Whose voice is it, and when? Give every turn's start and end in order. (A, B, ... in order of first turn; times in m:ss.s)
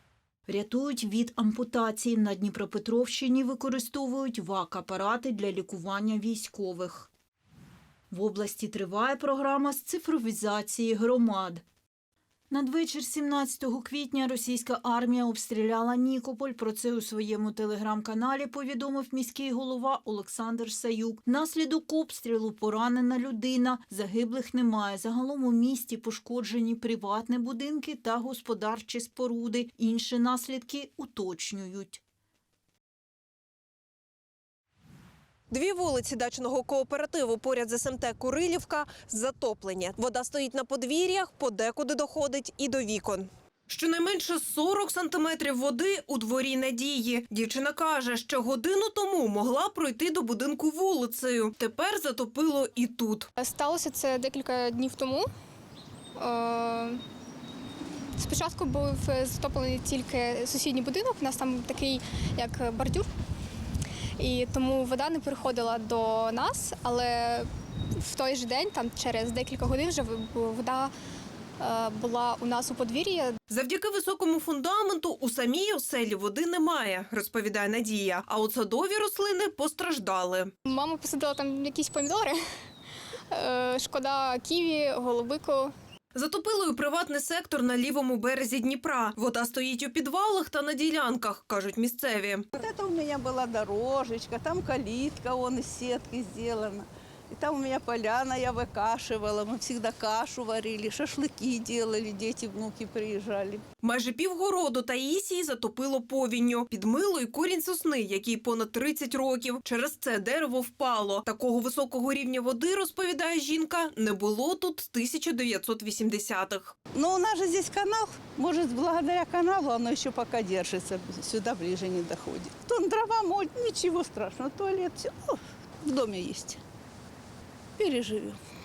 0:00.5-0:07.1 A
0:08.1-0:11.6 A
0:12.5-0:32.0 A
0:35.5-0:53.3 B
0:53.4-0:55.3 C
0:56.2-0:57.0 C
0:58.2-1:03.1 C
1:04.2-1:10.9 C
1:11.6-1:13.4 C
1:13.5-1:20.5 B
1:20.6-1:22.4 C
1:23.3-1:25.7 C
1:26.1-1:32.5 B
1:32.5-1:43.6 D
1:43.8-1:56.8 B
1:56.9-2:06.6 D
2:07.8-2:08.4 D